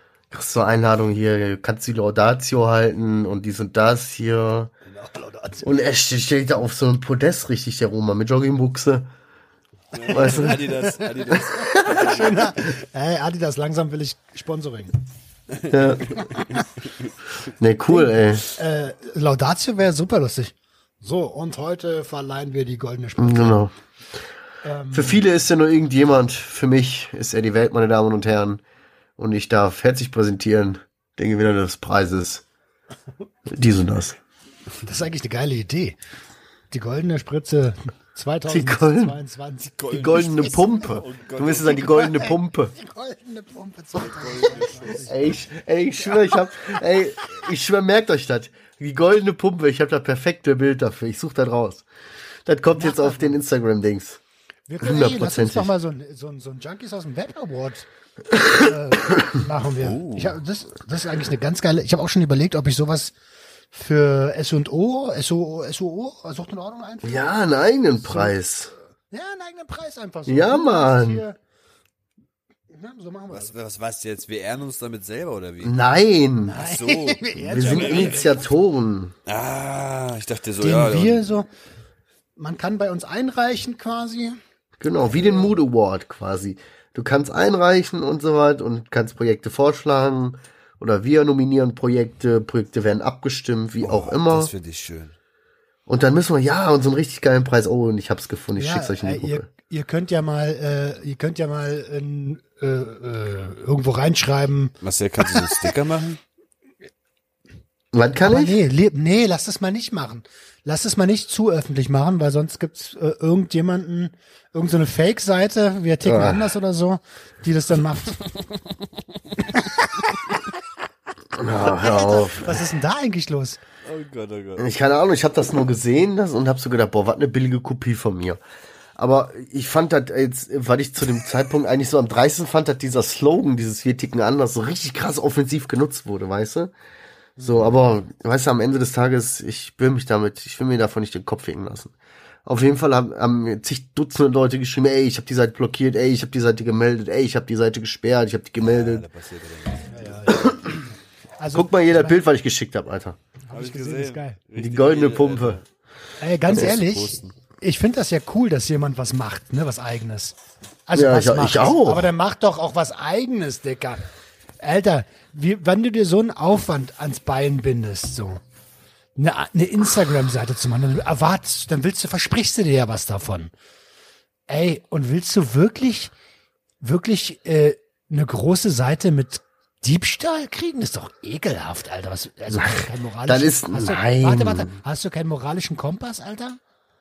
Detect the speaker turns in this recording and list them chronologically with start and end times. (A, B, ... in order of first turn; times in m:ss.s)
0:00.3-0:04.7 A
0:04.8-0:05.6 B
0:05.6-0:09.1 A
0:09.9-0:12.4 C
0:10.1-0:10.7 A
0:10.2-0:14.9 B
0:11.7-0:12.1 A
0:15.5-0:16.2 C
0:15.7-0:16.1 A
0:17.6-0:18.4 A
0:17.9-0:23.6 B
0:23.2-0:23.7 A
0:24.6-0:25.2 B
0:24.9-0:28.6 A
0:29.2-0:32.4 A
0:33.5-0:34.2 A
0:34.8-0:36.0 B
0:36.7-0:40.8 B
0:38.5-0:39.2 A
0:39.8-0:42.1 C
0:39.9-0:42.7 A
0:41.7-0:45.2 B
0:44.0-0:45.0 C
0:45.0-0:51.8 A
0:52.4-0:54.2 A
0:52.7-0:53.4 B
0:54.7-0:57.9 B
0:54.8-0:55.7 A
0:58.5-1:03.1 B
0:59.8-1:00.4 C
1:03.7-1:07.3 B
1:07.0-1:08.7 A
1:08.0-1:08.3 B
1:09.1-1:11.4 B
1:10.3-1:11.2 A
1:12.7-1:13.5 B
1:13.3-1:15.8 C
1:15.6-1:16.6 A
1:16.4-1:18.4 B
1:16.6-1:18.2 C
1:17.5-1:19.1 A
1:19.2-1:21.3 C
1:20.6-1:21.5 B
1:22.4-1:24.4 B
1:24.8-1:34.5 A
1:33.8-1:35.1 C
1:35.9-1:39.5 A
1:38.6-1:44.7 B
1:44.8-1:46.2 C
1:45.3-1:45.7 B
1:47.9-1:48.6 A
1:48.2-1:58.2 B
1:56.0-1:56.5 A
1:58.3-1:58.6 C
1:59.5-1:59.8 B
2:01.4-2:02.6 A
2:01.8-2:03.6 B
2:03.8-2:04.6 C
2:04.6-2:08.4 A
2:09.0-2:16.7 A
2:17.4-2:21.9 A
2:22.4-2:29.0 A
2:28.6-2:30.3 C
2:29.9-2:30.6 B
2:30.3-2:30.8 A
2:31.4-2:32.2 B
2:31.5-2:33.2 A
2:33.5-2:34.4 B
2:33.5-2:35.6 C
2:34.6-2:35.6 A
2:36.2-2:40.3 B
2:36.5-2:37.3 C
2:40.9-2:44.0 B
2:40.9-2:42.1 A
2:44.6-2:48.4 B
2:49.2-2:53.5 B
2:54.5-2:56.1 B
2:56.8-3:06.6 B
3:02.5-3:04.8 A